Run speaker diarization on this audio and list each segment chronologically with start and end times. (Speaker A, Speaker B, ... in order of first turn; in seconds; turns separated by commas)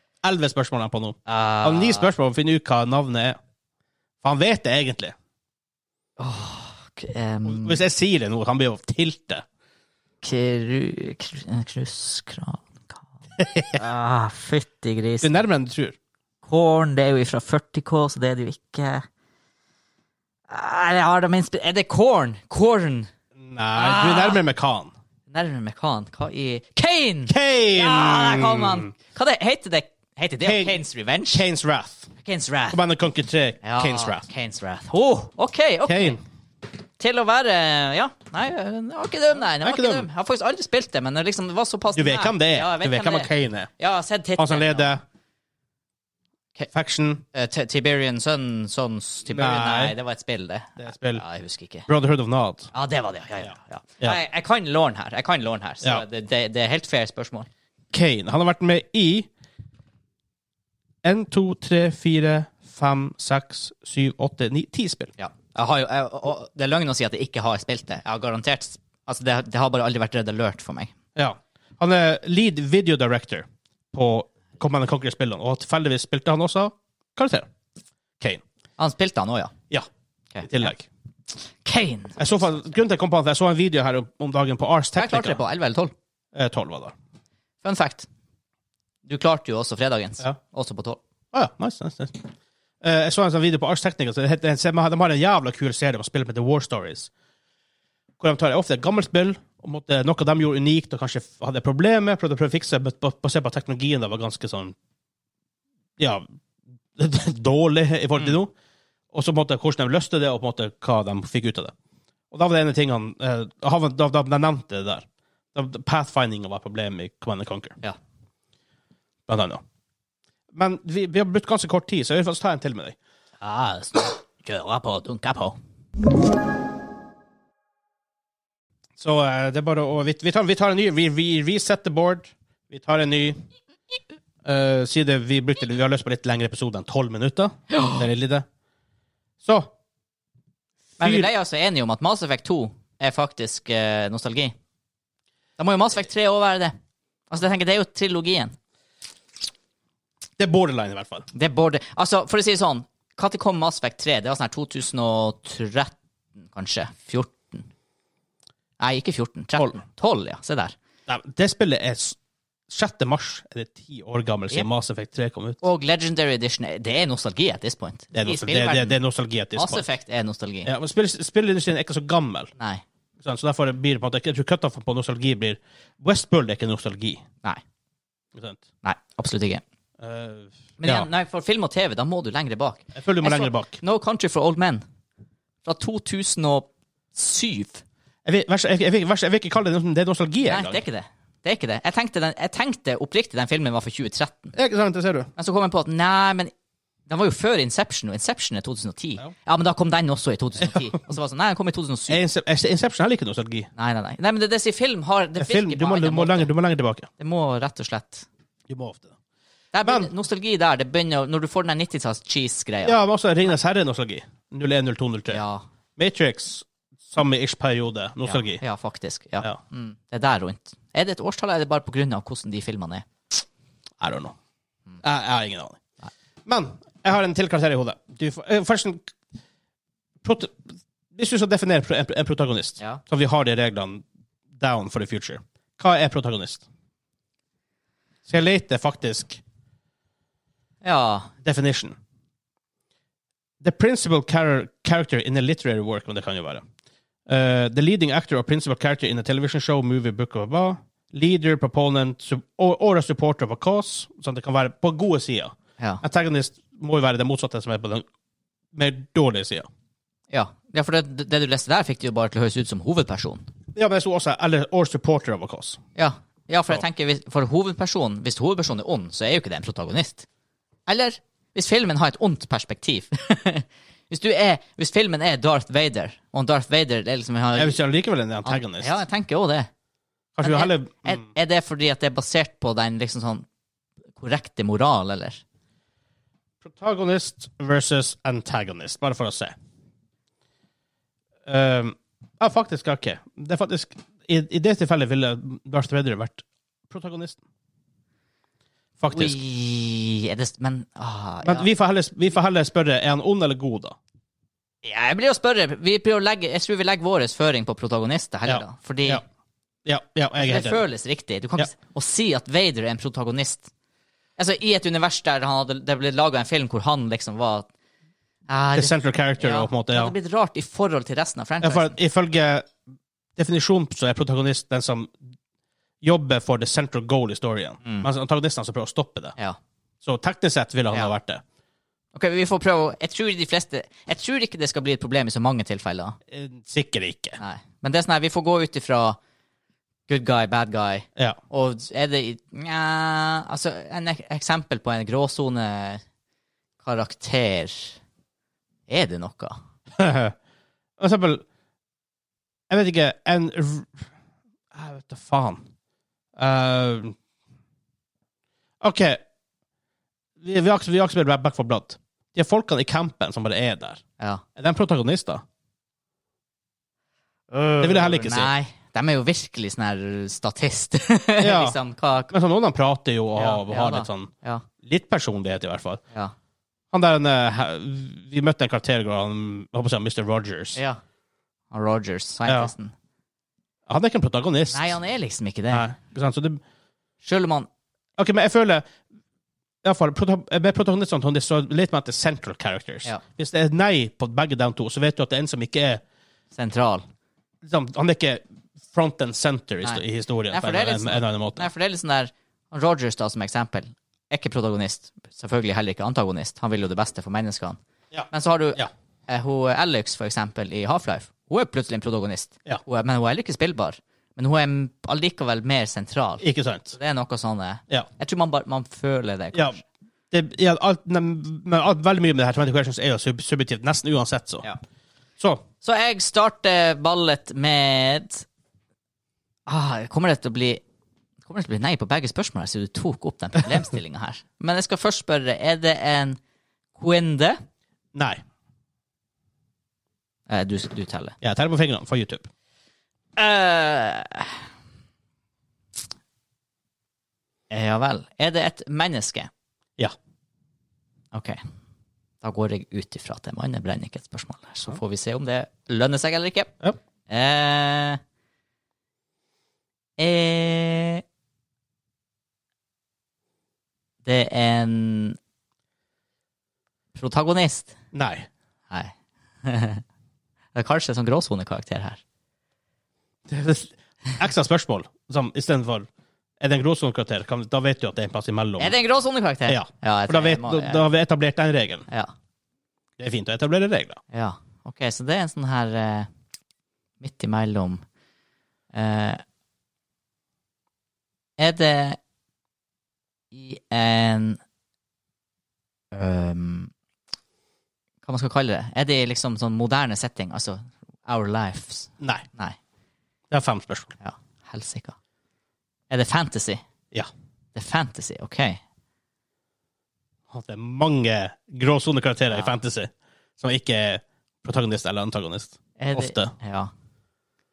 Speaker A: 0.2-3.4, Speaker B: 1.2-2.1, Speaker A: 4.2-5.1, Speaker B: 6.2-7.8, Speaker A: 7.4-9.4, Speaker B: 10.2-13.1, Speaker A: 13.4-13.8, Speaker B: 13.7-15.4, Speaker A: 15.2-16.0, Speaker B: 16.4-19.1, Speaker B: 20.5-23.1, Speaker A: 23.4-24.9, Speaker B: 23.8-24.4, Speaker B: 25.3-31.4, Speaker A: 27.3-28.9, Speaker A: 30.4-30.8, Speaker A: 31.3-32.1, Speaker B: 32.2-32.8, Speaker A: 32.7-34.2, Speaker B: 33.6-36.2, Speaker A: 35.9-36.2, Speaker B: 37.0-45.0, Speaker A: 39.6-40.0, Speaker A: 41.9-43.7, Speaker A: 44.4-45.0, Speaker A: 46.7-47.2, Speaker B: 47.3-51.9, Speaker A: 49.3-49.9, Speaker A: 50.8-51.2, Speaker A: 51.9-52.7, Speaker B: 52.7-57.5, Speaker A: 57.9-59.3, Speaker A: 61.0-65.1, Speaker B: 65.2-70.9, Speaker A: 71.2-77.5, Speaker B: 78.8-79.5, Speaker B: 80.3-80.7, Speaker A: 80.4-80.9, Speaker B: 81.6-82.2, Speaker A: 82.2-85.4, Speaker B: 85.0-85.9, Speaker A: 86.3-86.9, Speaker B: 87.6-88.1, Speaker B: 89.0-91.0, Speaker A: 91.3-92.3, Speaker A: 92.8-97.1, Speaker A: 98.2-104.8, Speaker A: 106.0-106.2, Speaker A: 107.0-108.5, Speaker A: 109.1-111.7, Speaker A: 112.3-117.8, Speaker A: 119.3-119.6, Speaker A: 120.5-123.0, Speaker B: 123.4-125.5, Speaker A: 129.0-133.4, Speaker A: 134.4-138.4, Speaker B: 137.7-138.0, Speaker A: 139.4-139.7, Speaker B: 141.0-144.5, Speaker A: 141.0-141.3, Speaker B: 145.6-146.8, Speaker B: 147.3-148.6, Speaker A: 150.4-151.2, Speaker B: 151.3-155.9, Speaker B: 156.5-157.7, Speaker B: 158.8-160.8, Speaker A: 161.1-162.2, Speaker A: 162.7-165.6, Speaker B: 165.6-169.0, Speaker A: 168.1-169.8, Speaker B: 169.5-170.7, Speaker A: 170.6-172.5, Speaker B: 172.6-172.8, Speaker A: 173.2-177.2, Speaker A: 178.3-178.6, Speaker B: 178.8-179.6, Speaker A: 180.0-181.1, Speaker B: 180.8-184.8, Speaker A: 182.9-183.8, Speaker B: 185.6-187.8, Speaker A: 188.2-190.8, Speaker B: 190.4-194.5, Speaker A: 194.5-195.3, Speaker B: 195.4-196.5, Speaker B: 197.1-202.2, Speaker A: 200.6-200.9, Speaker A: 202.1-203.7, Speaker B: 203.8-206.5, Speaker A: 205.4-207.1, Speaker B: 207.2-208.2, Speaker A: 208.7-209.1, Speaker B: 209.7-213.0, Speaker A: 209.8-210.1, Speaker A: 212.8-215.4, Speaker B: 215.3-215.6, Speaker A: 216.0-218.6, Speaker B: 218.2-223.1, Speaker A: 224.0-224.3, Speaker A: 225.0-225.8, Speaker A: 226.4-229.1, Speaker A: 230.2-230.6, Speaker A: 231.1-234.0, Speaker A: 234.6-236.6, Speaker A: 238.2-239.4, Speaker B: 240.8-241.3, Speaker A: 241.4-241.9, Speaker A: 243.6-246.6, Speaker A: 247.3-258.1, Speaker A: 258.7-259.7, Speaker B: 260.3-263.5, Speaker A: 263.7-265.8, Speaker B: 265.9-270.2, Speaker B: 270.9-277.8, Speaker A: 277.6-279.0, Speaker B: 278.4-279.7, Speaker A: 280.4-281.2, Speaker B: 280.4-283.4, Speaker B: 284.2-285.4, Speaker A: 286.6-289.5, Speaker A: 291.4-297.4, Speaker A: 299.0-299.4, Speaker B: 299.1-301.7, Speaker A: 301.4-303.9, Speaker B: 304.8-309.2, Speaker A: 308.4-309.2, Speaker A: 309.8-310.8, Speaker B: 310.4-313.7, Speaker B: 314.4-317.7, Speaker B: 318.5-321.9, Speaker A: 318.8-320.1, Speaker A: 321.6-322.7, Speaker A: 323.4-325.2, Speaker A: 326.0-329.3, Speaker A: 330.0-331.4, Speaker B: 332.1-336.2, Speaker A: 336.3-337.4, Speaker B: 337.4-339.2, Speaker B: 340.1-346.0, Speaker B: 346.8-348.0, Speaker B: 348.9-349.6, Speaker A: 350.0-350.3, Speaker A: 351.0-351.4, Speaker A: 352.7-354.0, Speaker A: 354.7-355.6, Speaker A: 356.4-357.1, Speaker A: 358.8-359.2, Speaker A: 360.4-364.0, Speaker B: 364.2-364.4, Speaker A: 364.6-365.4, Speaker B: 367.5-372.3, Speaker A: 367.8-368.5, Speaker A: 371.4-371.8, Speaker A: 372.3-374.3, Speaker B: 373.4-374.7, Speaker A: 374.8-376.0, Speaker A: 376.9-380.8, Speaker B: 380.8-381.0, Speaker B: 381.7-382.9, Speaker A: 383.9-384.9, Speaker B: 384.7-385.9, Speaker A: 385.7-386.6, Speaker B: 387.2-387.7, Speaker A: 388.2-388.9, Speaker A: 389.8-396.0, Speaker B: 396.5-397.0, Speaker A: 397.6-401.7, Speaker B: 399.8-407.8, Speaker A: 408.1-408.9, Speaker B: 408.3-419.8, Speaker A: 416.4-416.9, Speaker A: 419.5-419.8, Speaker A: 420.3-424.6, Speaker B: 425.8-428.5, Speaker B: 429.7-430.8, Speaker B: 431.4-436.4, Speaker B: 436.9-437.6, Speaker A: 438.1-438.4, Speaker B: 440.5-441.4, Speaker A: 441.4-442.5, Speaker B: 443.4-444.6, Speaker B: 447.7-449.5, Speaker B: 451.3-451.6, Speaker B: 452.4-456.7, Speaker B: 457.3-458.2, Speaker B: 460.2-461.2, Speaker B: 464.2-465.4, Speaker B: 467.1-468.0, Speaker A: 468.1-468.5, Speaker B: 468.9-470.0, Speaker B: 470.7-472.2, Speaker A: 473.5-476.1, Speaker A: 476.6-478.9, Speaker B: 478.8-481.1, Speaker A: 479.7-482.1, Speaker A: 483.2-484.2, Speaker B: 484.3-486.3, Speaker B: 487.2-488.0, Speaker B: 488.9-489.4, Speaker B: 491.6-492.2, Speaker B: 493.5-494.6, Speaker B: 496.1-496.9, Speaker B: 498.2-502.8, Speaker A: 502.2-502.4, Speaker A: 503.5-504.1, Speaker B: 504.2-505.1, Speaker B: 506.1-506.8, Speaker B: 507.7-508.8, Speaker A: 510.5-516.5, Speaker B: 516.0-516.9